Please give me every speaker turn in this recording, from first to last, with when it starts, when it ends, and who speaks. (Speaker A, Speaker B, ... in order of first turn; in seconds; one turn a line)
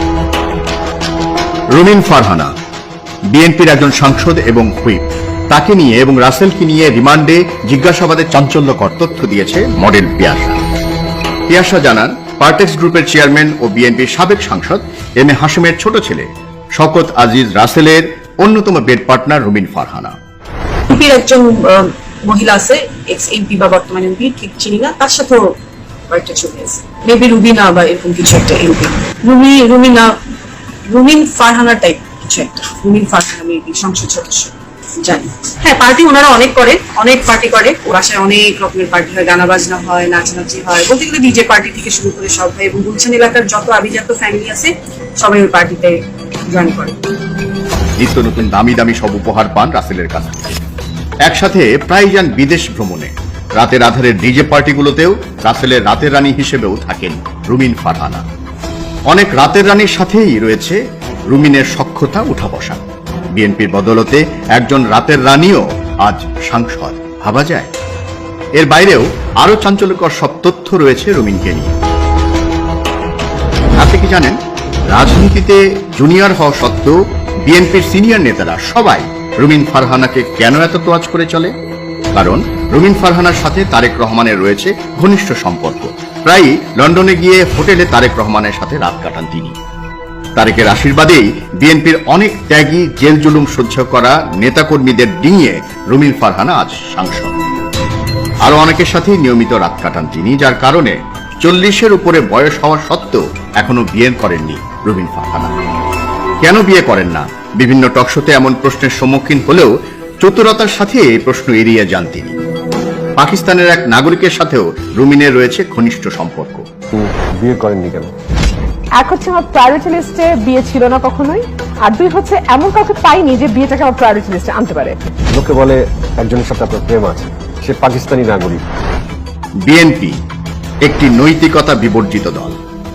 Speaker A: 1.7-2.5
Speaker A: 3.3-10.6
Speaker A: 11.5-20.1
Speaker B: 20.9-25.5
Speaker B: 26.1-30.1
Speaker B: 30.9-47.0
Speaker A: 48.0-50.4
Speaker A: 51.2-58.2
Speaker A: 59.1-62.8
Speaker A: 63.3-67.7
Speaker A: 68.6-71.7
Speaker A: 73.8-74.4
Speaker A: 74.9-81.5
Speaker A: 82.1-89.5
Speaker A: 90.3-97.3
Speaker A: 98.4-105.5
Speaker A: 106.4-109.7
Speaker A: 110.2-112.3
Speaker A: 113.2-116.6
Speaker C: 116.9-118.1
Speaker D: 119.0-125.0
Speaker C: 125.3-128.6
Speaker A: 129.6-130.2
Speaker A: 130.8-132.6